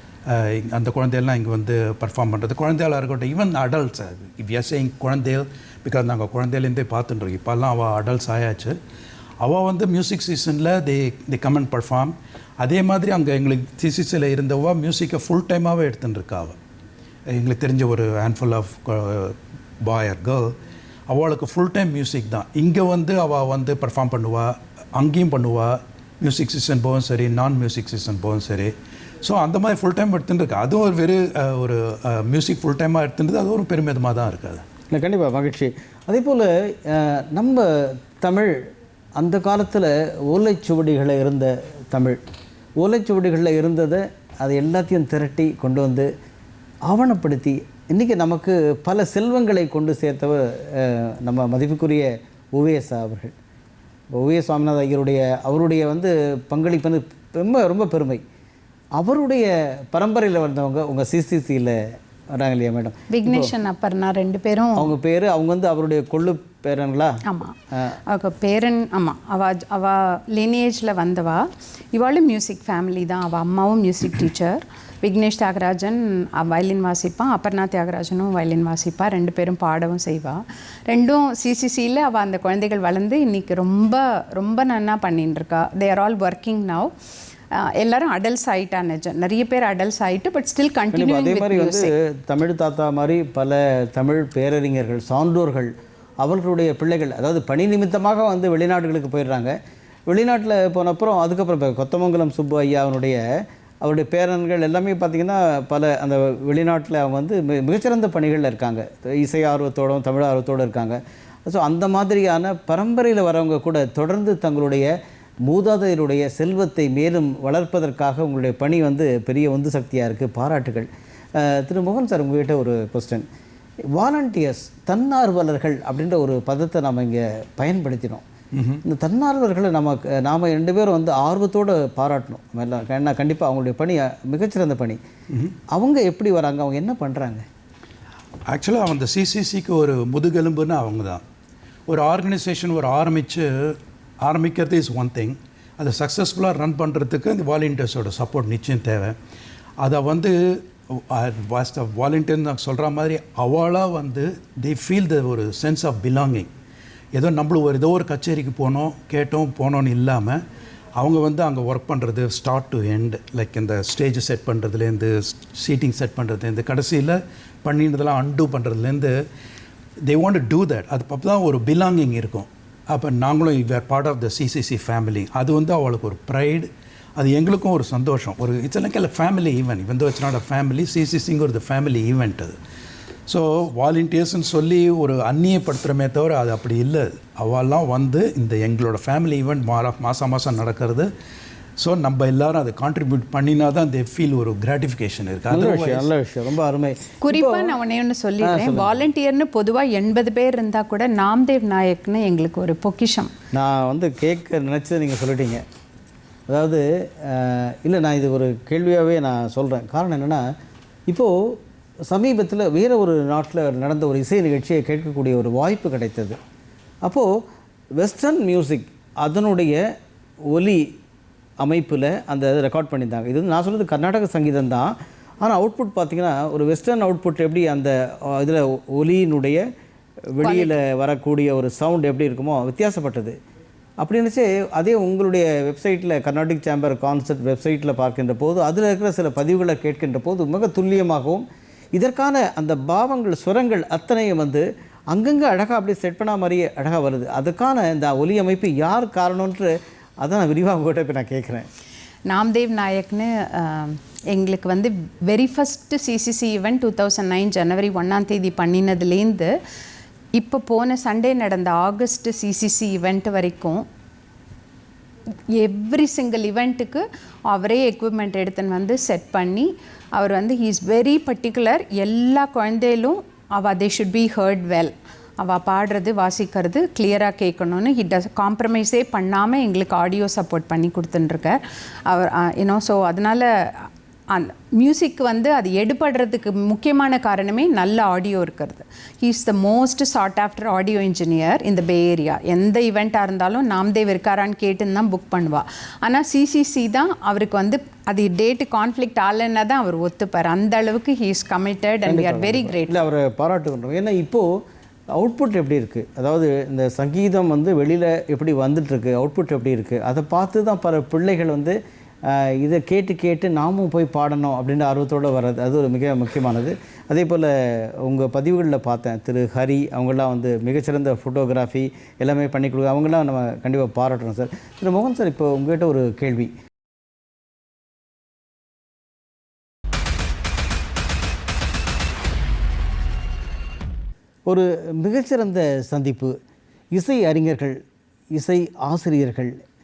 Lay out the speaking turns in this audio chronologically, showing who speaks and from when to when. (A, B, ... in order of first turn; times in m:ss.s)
0:00.3-0:08.8 A
0:09.4-0:16.6 A
0:17.3-0:20.6 A
0:21.1-0:34.7 A
0:34.9-0:38.6 B
0:39.2-0:42.2 B
0:42.8-0:46.1 B
0:46.9-0:53.4 B
0:54.2-0:58.2 B
0:59.0-1:01.8 B
1:02.3-1:03.5 B
1:03.1-1:04.9 C
1:04.8-1:08.0 B
1:07.3-1:26.9 C
1:27.5-1:31.9 C
1:30.9-1:39.6 B
1:40.1-1:43.2 B
1:43.8-1:54.9 B
1:55.5-2:03.3 B
2:03.9-2:08.2 B
2:08.5-2:08.8 A
2:08.8-2:15.0 B
2:15.7-2:17.4 B
2:18.5-2:21.2 A
2:21.9-2:29.2 A
2:29.8-2:36.5 A
2:37.1-2:40.4 A
2:41.0-2:49.2 A
2:50.0-3:02.6 A
3:03.3-3:11.1 A
3:11.8-3:16.1 A
3:15.5-3:17.8 B
3:17.2-3:23.3 C
3:18.4-3:19.0 B
3:23.5-3:25.6 B
3:26.5-3:30.4 B
3:31.1-3:36.4 B
3:38.0-3:39.8 B
3:40.5-3:40.9 B
3:41.6-3:49.6 B
3:50.3-3:53.4 B
3:50.4-3:50.7 C
3:54.0-4:11.7 B
4:12.3-4:19.5 C
4:20.4-4:23.8 C
4:25.5-5:03.0 C
5:02.0-5:04.5 B
5:05.2-5:26.5 B
5:34.5-5:36.4 B
5:36.9-5:37.8 B
5:38.3-5:39.6 B